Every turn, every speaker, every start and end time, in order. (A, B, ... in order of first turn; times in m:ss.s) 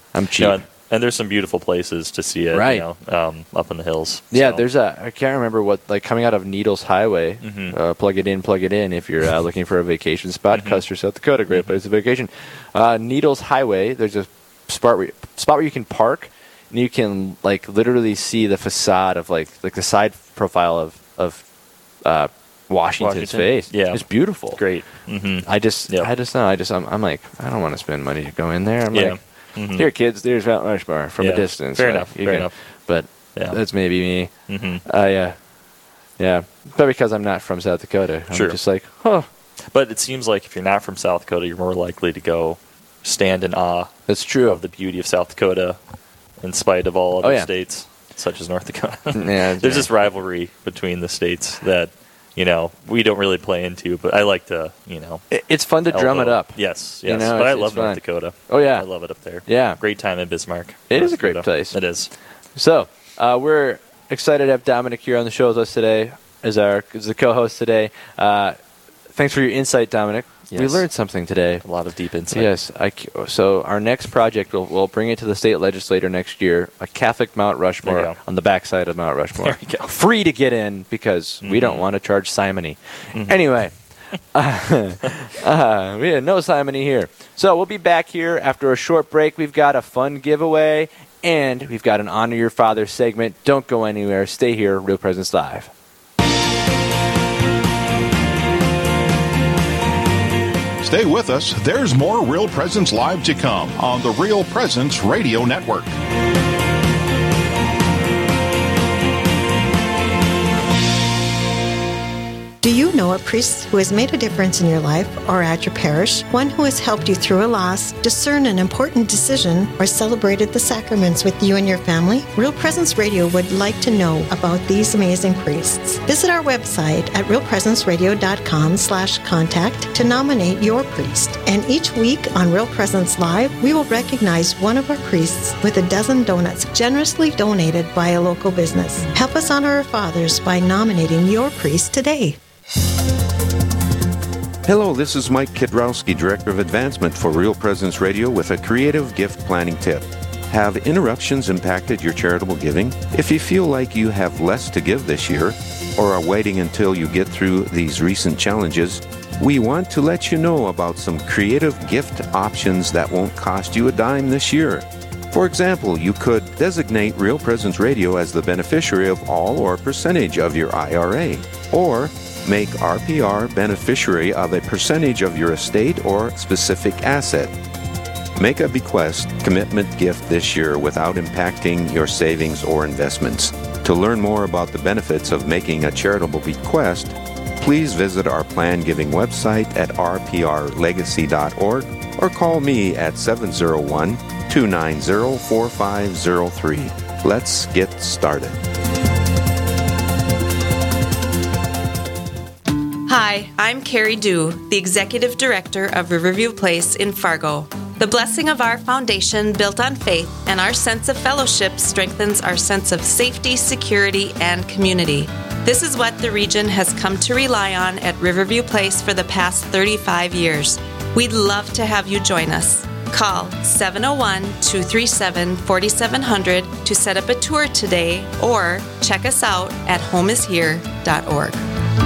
0:00.1-0:00.6 A
0:00.4-0:04.6 B
0:02.5-0:02.8 A
0:04.3-0:21.4 A
0:07.4-0:07.7 B
0:10.5-0:10.8 B
0:11.5-0:11.8 B
0:22.0-0:24.6 A
0:23.0-0:26.1 B
0:25.4-0:29.2 A
0:28.9-0:29.9 B
0:29.7-0:34.3 A
0:31.2-0:32.5 B
0:34.5-0:34.8 B
0:34.8-0:35.4 A
0:36.2-0:39.3 A
0:38.3-0:38.6 B
0:39.7-0:45.8 B
0:44.1-0:44.6 A
0:46.4-0:55.2 B
0:47.2-0:47.5 A
0:49.1-0:49.9 A
0:55.3-0:58.8 A
0:55.9-1:02.1 B
0:59.5-0:59.8 A
1:00.9-1:01.8 A
1:02.6-1:08.6 A
1:09.1-1:11.6 A
1:10.5-1:10.8 B
1:11.6-1:12.5 B
1:12.3-1:23.7 A
1:17.8-1:18.2 B
1:19.4-1:19.9 B
1:21.4-1:21.8 B
1:24.3-1:35.7 A
1:40.8-1:45.9 C
1:52.6-2:22.4 D
2:24.6-2:57.5 E
2:58.3-3:18.6 E
3:23.1-3:51.6 F